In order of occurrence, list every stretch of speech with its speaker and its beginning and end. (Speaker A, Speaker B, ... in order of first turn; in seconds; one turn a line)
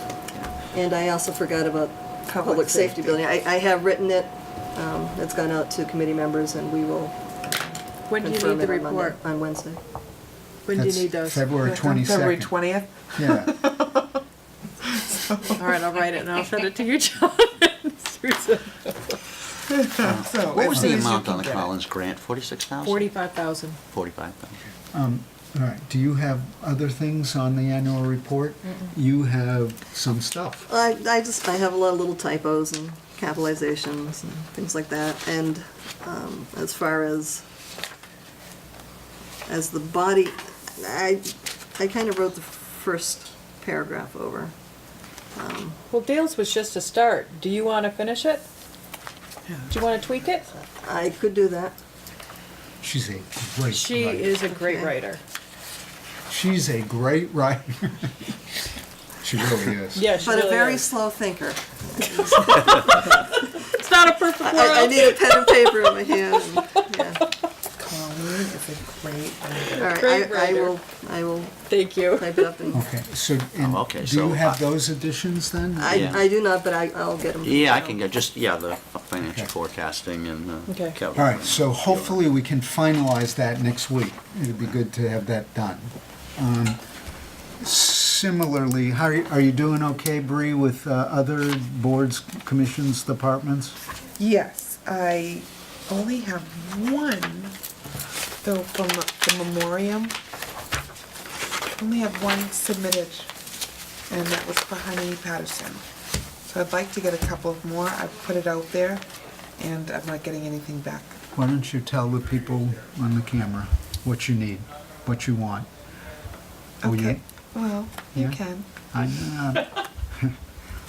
Speaker A: 0.7-7.2
Speaker B: 2.3-3.2
Speaker C: 8.1-9.2
Speaker A: 8.2-9.8
Speaker C: 10.7-11.5
Speaker D: 10.8-12.6
Speaker B: 11.6-14.2
Speaker D: 13.2-13.6
Speaker B: 14.8-15.8
Speaker C: 15.6-19.2
Speaker B: 19.7-21.7
Speaker E: 20.0-23.1
Speaker D: 20.7-21.0
Speaker C: 22.8-23.8
Speaker E: 23.9-24.6
Speaker D: 24.9-30.7
Speaker A: 30.7-37.4
Speaker A: 39.5-44.5
Speaker A: 45.4-45.8
Speaker C: 45.9-48.4
Speaker C: 49.7-50.5
Speaker A: 50.8-51.8
Speaker D: 52.8-54.4
Speaker C: 53.7-55.2
Speaker A: 54.5-54.9
Speaker D: 56.3-58.3
Speaker D: 59.2-60.1
Speaker C: 59.9-60.9
Speaker A: 60.1-63.5
Speaker C: 62.4-66.0
Speaker A: 64.4-67.2
Speaker C: 66.5-66.8
Speaker B: 67.8-69.9
Speaker A: 69.8-72.8
Speaker C: 69.8-70.8
Speaker C: 71.7-72.5
Speaker D: 72.7-76.1
Speaker E: 73.6-74.6
Speaker A: 75.8-78.0
Speaker E: 75.9-76.2
Speaker E: 77.4-82.2
Speaker D: 79.2-79.5
Speaker C: 80.7-81.0
Speaker D: 81.2-86.8
Speaker D: 87.6-93.8
Speaker B: 94.2-97.5
Speaker B: 98.4-100.2
Speaker B: 101.7-103.3
Speaker B: 104.1-105.8
Speaker B: 106.5-109.0
Speaker B: 109.6-111.2
Speaker D: 111.3-115.7
Speaker D: 116.8-117.2
Speaker B: 116.8-118.7
Speaker D: 118.9-120.3